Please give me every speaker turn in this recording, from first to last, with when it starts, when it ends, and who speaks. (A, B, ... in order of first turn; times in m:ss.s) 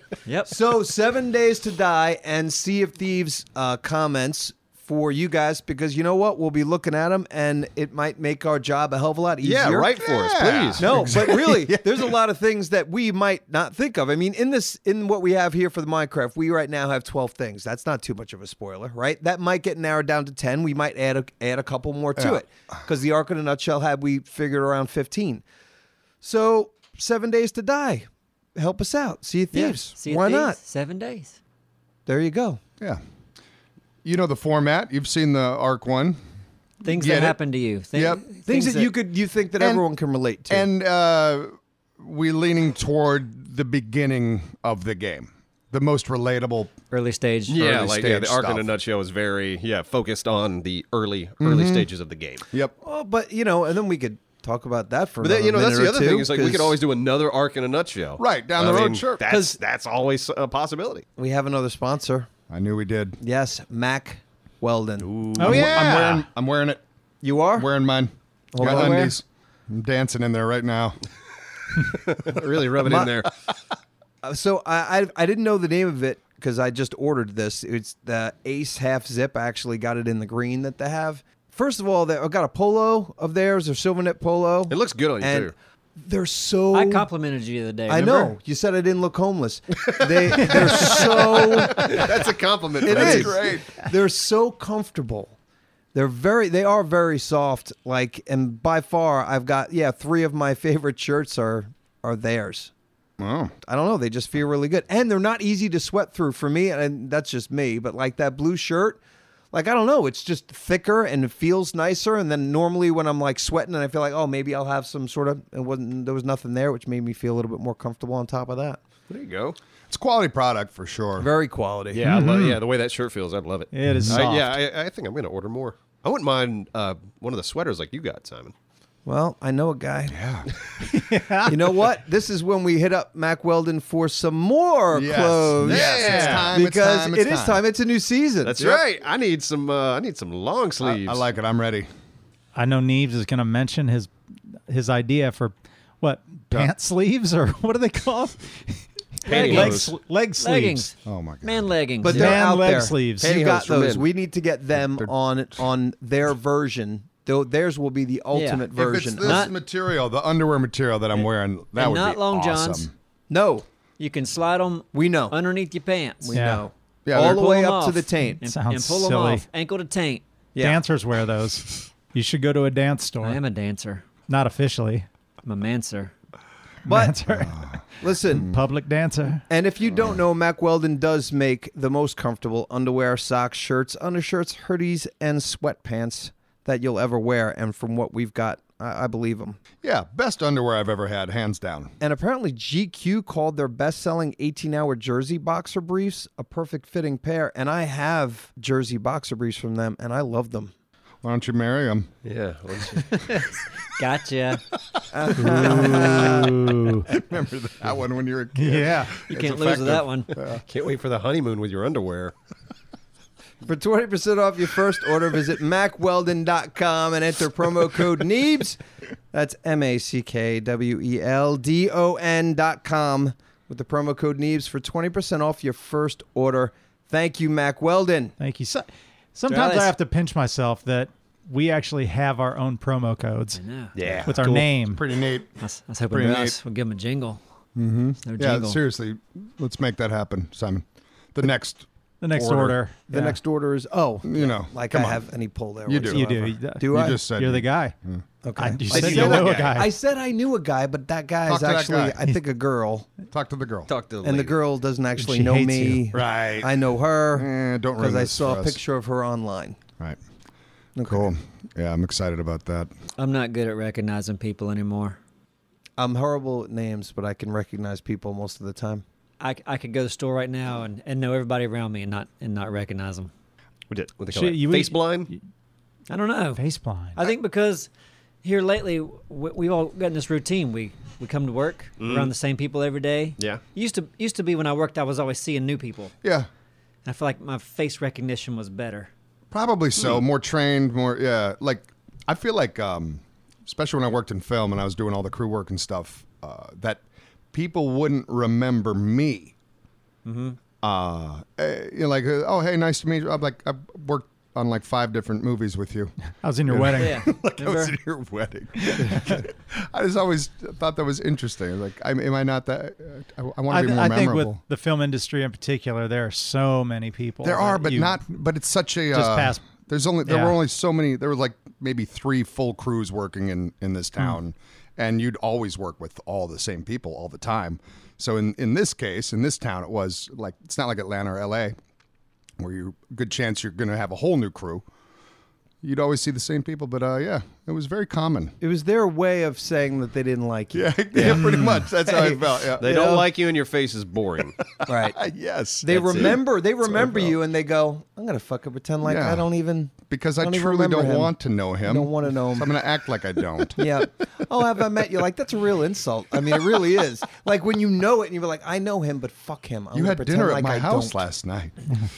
0:00.3-0:00.6 A
0:00.5-0:10.1 B
0:09.4-0:11.3 C
0:10.0-0:12.0 D
0:10.8-0:25.4 B
0:26.2-0:30.6 B
0:29.5-0:31.4 A
0:32.1-0:32.6 B
0:34.0-0:36.2 D
0:36.8-0:38.9 A
0:36.9-0:37.4 D
0:37.9-0:38.2 D
0:38.5-0:40.7 B
0:39.6-0:39.8 D
0:40.5-0:46.7 D
0:46.9-0:47.6 A
0:47.5-0:52.4 C
0:47.6-0:48.7 D
0:51.4-0:51.9 D
0:52.8-0:56.8 B
0:55.2-1:01.0 C
0:58.2-0:59.2 D
0:59.3-0:59.6 B
1:01.2-1:02.3 B
1:02.5-1:03.2 D
1:03.2-1:05.2 B
1:05.0-1:05.8 C
1:05.4-1:06.3 E
1:05.4-1:06.8 D
1:07.2-1:07.7 B
1:07.6-1:11.0 D
1:08.5-1:09.2 B
1:08.7-1:09.1 A
1:12.0-1:13.3 C
1:12.8-1:13.2 B
1:14.2-1:27.1 B
1:24.7-1:25.5 C
1:26.7-1:28.3 A
1:27.9-1:32.1 B
1:30.0-1:33.5 C
1:32.8-1:33.7 D
1:32.8-1:35.4 B
1:35.9-1:42.7 B
1:43.2-1:43.5 D
1:43.6-1:49.0 B
1:49.5-1:58.8 B
1:59.1-1:59.6 C
1:59.9-2:01.3 D
2:01.2-2:02.0 B
2:01.9-2:08.5 C
2:02.0-2:02.6 E
2:03.7-2:04.5 E
2:03.9-2:04.2 D
2:09.1-2:10.2 B
2:10.1-2:10.5 D
2:10.8-2:11.6 E
2:11.5-2:18.8 B
2:14.9-2:17.6 D
2:15.7-2:16.5 C
2:15.9-2:16.5 E
2:18.4-2:21.2 C
2:20.8-2:21.9 D
2:22.6-2:24.1 E
2:24.7-2:30.9 E
2:29.2-2:29.9 C
2:29.3-2:32.4 A
2:31.0-2:31.7 D
2:32.0-2:39.5 B
2:32.1-2:33.3 E
2:33.2-2:34.1 C
2:38.3-2:38.7 A
2:38.7-2:42.9 D
2:39.2-2:39.5 A
2:41.2-2:42.9 A
2:43.3-2:43.6 B
2:44.0-2:46.4 A
2:44.9-2:45.4 B
2:46.2-2:48.4 B
2:46.3-2:46.7 E
2:47.1-2:47.5 D
2:47.1-2:50.2 A
2:48.4-2:49.4 E
2:50.6-2:50.8 B
2:50.6-2:53.4 E
2:53.2-2:54.1 A
2:54.3-2:55.1 E
2:55.4-2:56.1 A
2:56.8-2:57.8 E
2:56.9-2:57.4 B
2:57.4-2:57.8 D
2:58.0-2:58.5 B
2:58.3-2:59.4 E
2:59.5-3:09.6 B
2:59.9-3:00.2 D
3:09.8-3:11.9 D
3:12.0-3:20.7 B
3:21.2-3:22.1 D
3:22.2-3:23.2 C
3:23.0-3:24.6 A
3:25.1-3:26.6 B
3:25.4-3:27.1 E
3:25.5-3:26.5 D
3:27.0-3:30.6 D
3:28.6-3:29.2 E
3:29.3-3:30.4 A
3:30.7-3:32.3 C
3:33.6-3:48.4 B
3:48.4-3:53.6 E
3:49.5-3:49.9 A
3:53.5-3:54.0 A
3:54.0-3:54.6 C
3:54.1-3:55.5 D
3:54.3-3:55.0 E
3:55.6-3:57.4 A
3:56.1-3:56.6 D
3:57.8-4:02.8 D
3:58.2-3:58.8 A
4:02.2-4:03.4 E
4:03.1-4:07.2 B
4:04.2-4:05.2 D
4:05.9-4:06.3 D
4:06.1-4:08.0 E
4:06.9-4:08.2 D
4:08.4-4:13.1 B
4:08.6-4:09.9 E
4:08.9-4:09.8 C
4:11.4-4:12.2 D
4:13.3-4:13.9 D
4:13.9-4:14.6 C
4:14.2-4:19.8 B
4:15.2-4:16.1 E
4:16.1-4:18.8 D
4:21.0-4:21.3 B
4:21.0-4:22.9 D
4:23.2-4:25.2 A
4:26.0-4:29.0 B
4:29.4-4:33.3 A
4:33.9-4:35.3 C
4:34.3-4:35.4 E
4:36.1-4:36.6 A
4:36.6-4:37.2 E
4:37.2-4:37.9 A
4:38.4-4:46.1 A
4:42.0-4:42.3 C
4:46.2-4:46.5 D
4:47.0-4:49.1 A
4:49.5-4:59.5 D
5:00.2-5:00.6 A
5:00.8-5:14.6 D
5:06.4-5:07.3 E
5:07.0-5:08.0 A
5:08.9-5:09.4 E
5:13.7-5:18.2 E
5:17.4-5:31.8 D
5:19.1-5:19.7 E
5:20.2-5:20.6 E
5:32.6-5:34.9 D
5:35.8-5:38.6 D
5:38.6-5:43.3 B
5:40.7-5:42.9 D
5:41.4-5:41.8 E
5:42.8-5:44.6 C
5:44.8-5:47.3 D
5:44.9-5:45.2 B
5:45.8-5:52.7 B
5:45.9-5:46.4 C
5:49.0-5:49.5 D
5:50.0-5:54.0 D
5:53.8-6:01.2 B
5:59.9-6:01.8 D